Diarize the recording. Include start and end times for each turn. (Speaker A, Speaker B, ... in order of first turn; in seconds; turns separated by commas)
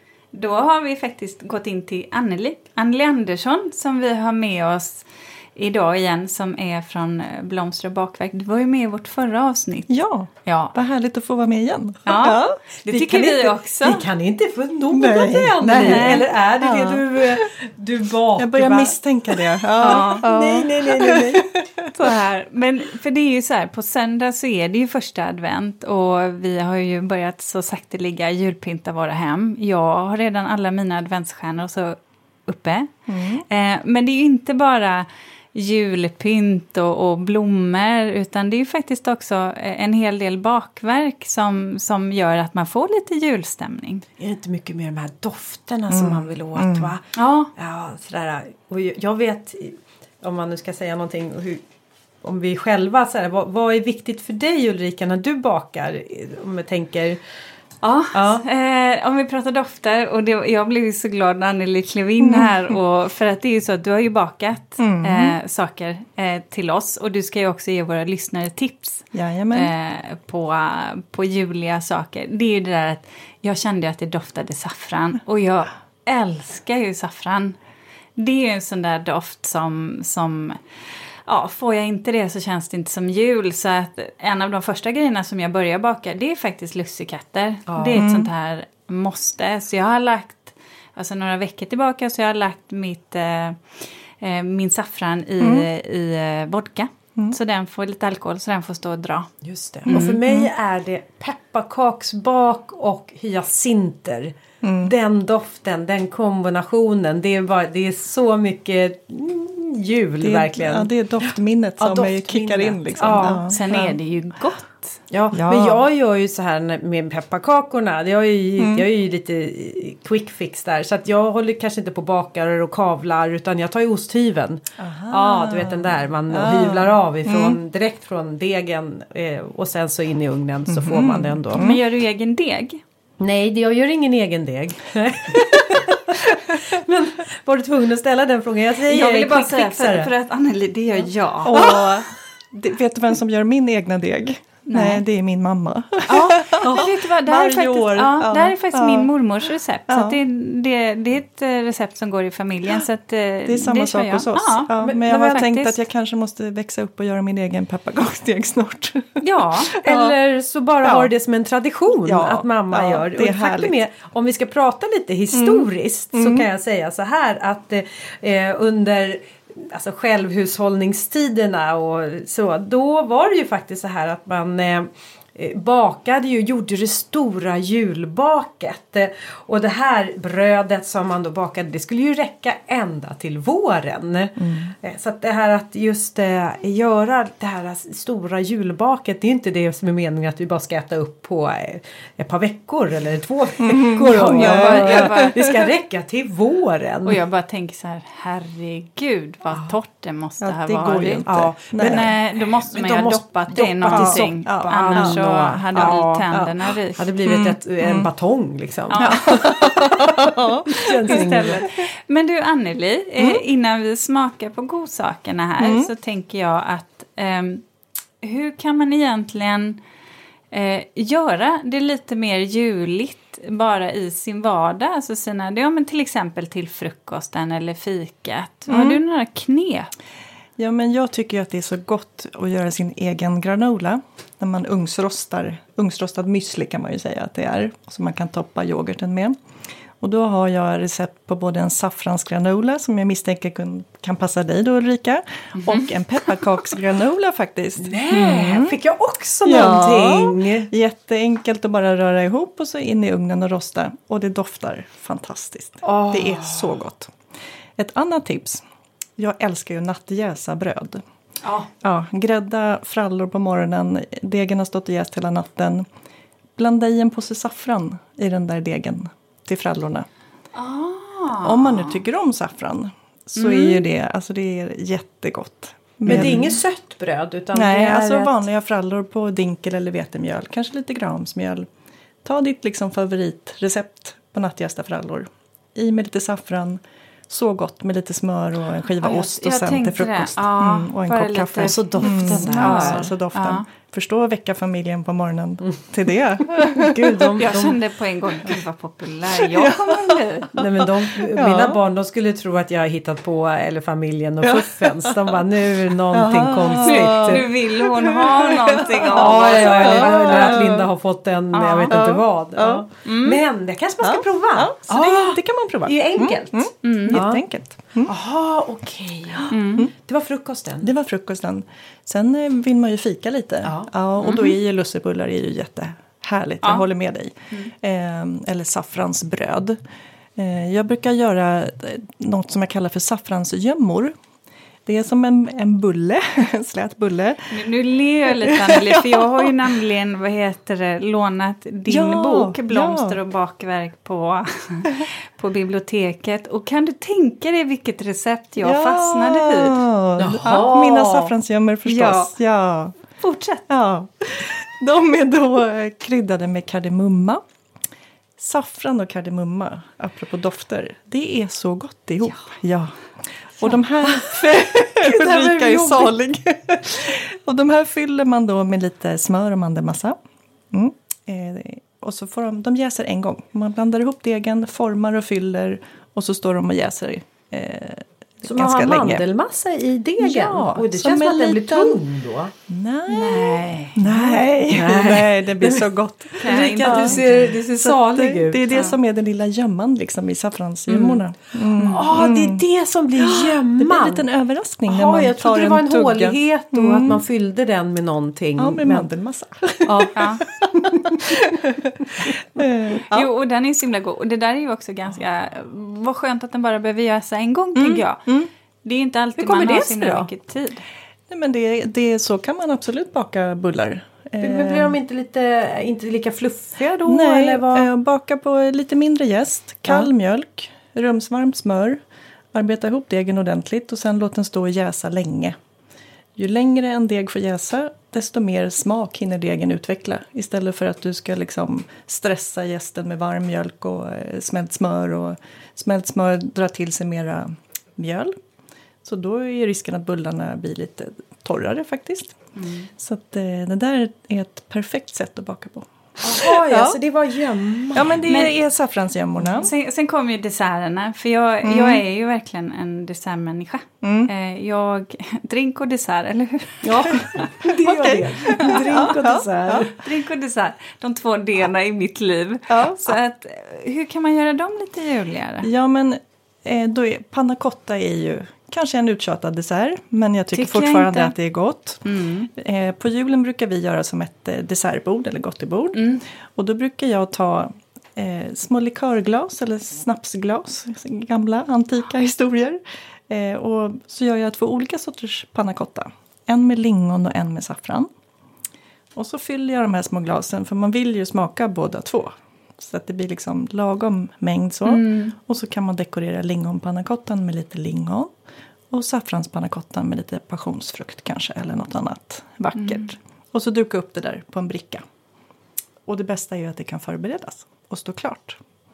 Speaker A: 0.3-9.9, Speaker B: 9.9-12.6, Speaker A: 10.4-10.7, Speaker A: 12.1-14.1, Speaker C: 12.9-21.5, Speaker B: 14.9-17.4, Speaker A: 15.8-16.2, Speaker B: 18.4-21.9, Speaker A: 19.8-20.2, Speaker A: 21.9-32.9, Speaker B: 33.1-33.4, Speaker A: 33.5-44.0, Speaker C: 44.2-47.0, Speaker B: 45.9-46.9, Speaker A: 47.1-47.5, Speaker C: 47.5-51.6, Speaker C: 52.2-57.2, Speaker A: 57.8-77.6, Speaker C: 58.1-58.4, Speaker B: 62.2-62.6, Speaker B: 64.8-65.3, Speaker B: 69.1-69.7, Speaker A: 78.2-80.6, Speaker A: 81.2-99.3, Speaker C: 87.7-88.0, Speaker B: 87.9-88.3, Speaker B: 95.4-95.7, Speaker C: 99.4-113.8, Speaker A: 99.8-100.2, Speaker B: 99.9-100.5, Speaker B: 104.6-104.9, Speaker B: 110.2-113.9, Speaker A: 113.5-115.0, Speaker C: 115.1-131.7, Speaker B: 115.3-115.8, Speaker B: 118.6-118.8, Speaker B: 124.8-127.6, Speaker B: 130.7-131.8, Speaker A: 131.5-132.8, Speaker C: 133.2-140.1, Speaker A: 138.9-141.8, Speaker B: 141.4-149.1, Speaker C: 141.5-141.8, Speaker A: 144.7-145.0, Speaker A: 146.1-155.8, Speaker C: 146.2-146.9, Speaker B: 149.9-150.2, Speaker B: 153.4-160.1, Speaker A: 159.2-159.7, Speaker C: 159.8-197.2, Speaker B: 160.8-161.1, Speaker B: 162.0-163.7, Speaker B: 165.3-166.4, Speaker B: 184.4-184.7, Speaker B: 193.6-195.7, Speaker A: 194.3-195.4, Speaker A: 197.0-207.0, Speaker B: 200.4-202.1, Speaker C: 201.2-211.7, Speaker B: 203.9-205.2, Speaker B: 205.8-206.4, Speaker B: 207.2-208.1, Speaker A: 208.9-209.7, Speaker B: 209.0-211.7, Speaker A: 211.0-217.7, Speaker B: 213.2-213.4, Speaker B: 215.6-215.9, Speaker A: 218.2-219.8, Speaker A: 220.5-229.9, Speaker B: 228.7-229.0, Speaker B: 230.6-239.3, Speaker B: 240.0-248.7, Speaker A: 245.6-245.9, Speaker C: 247.8-250.7, Speaker B: 249.4-257.1, Speaker C: 255.8-256.8, Speaker B: 257.8-258.6, Speaker B: 259.2-261.0, Speaker A: 261.4-261.7, Speaker B: 261.8-265.9, Speaker B: 266.6-270.1, Speaker A: 270.5-272.0, Speaker B: 271.4-276.6, Speaker A: 273.4-273.8, Speaker C: 276.1-278.4, Speaker B: 277.5-281.7, Speaker B: 282.2-297.2, Speaker A: 289.0-293.6, Speaker C: 291.6-293.1, Speaker C: 296.5-297.8, Speaker A: 297.4-300.6, Speaker B: 299.5-300.2, Speaker C: 300.5-307.4, Speaker B: 301.3-301.8, Speaker B: 304.6-305.2, Speaker B: 306.1-310.9, Speaker A: 306.8-310.6, Speaker C: 308.8-317.4, Speaker A: 311.5-311.9, Speaker B: 311.9-312.8, Speaker A: 313.1-313.4, Speaker B: 314.0-318.1, Speaker A: 316.8-317.2, Speaker C: 318.0-320.9, Speaker A: 319.5-319.9, Speaker B: 320.8-329.8, Speaker A: 324.2-324.6, Speaker B: 330.4-334.1, Speaker B: 334.9-337.6, Speaker A: 337.5-349.8, Speaker B: 338.3-339.5, Speaker B: 341.9-343.2, Speaker B: 348.6-352.9, Speaker C: 350.2-351.3, Speaker A: 351.8-352.3, Speaker A: 353.2-353.6, Speaker B: 353.7-357.4, Speaker B: 358.4-362.9, Speaker B: 363.6-370.2, Speaker C: 364.0-366.1, Speaker B: 370.7-379.2, Speaker C: 378.4-382.5, Speaker B: 380.2-382.0, Speaker B: 382.7-392.6, Speaker A: 383.1-384.0, Speaker C: 384.1-388.9, Speaker A: 386.4-387.5, Speaker A: 390.9-391.2, Speaker C: 391.8-394.2, Speaker B: 393.2-397.2, Speaker C: 394.9-399.1, Speaker B: 398.6-403.3, Speaker C: 399.8-402.6, Speaker A: 400.1-400.4, Speaker A: 403.1-408.2, Speaker B: 407.8-408.5, Speaker A: 408.8-410.8, Speaker C: 409.4-410.3, Speaker B: 411.3-414.9, Speaker C: 414.4-417.9, Speaker B: 417.0-422.0, Speaker B: 422.5-425.6, Speaker B: 426.4-438.4, Speaker B: 439.0-442.4, Speaker A: 442.6-442.9, Speaker B: 443.0-447.0, Speaker C: 446.2-448.2, Speaker B: 447.9-449.7, Speaker A: 448.2-448.6, Speaker A: 449.4-457.5, Speaker B: 451.6-452.0, Speaker B: 454.0-454.3, Speaker C: 456.8-460.0, Speaker B: 457.7-459.8, Speaker A: 459.9-465.7, Speaker B: 462.7-463.2, Speaker B: 465.6-488.1, Speaker A: 470.5-471.3, Speaker A: 472.0-472.5, Speaker A: 475.9-476.2, Speaker B: 489.1-498.3, Speaker A: 494.9-495.3, Speaker B: 498.9-505.0, Speaker A: 502.8-503.1, Speaker B: 506.1-508.6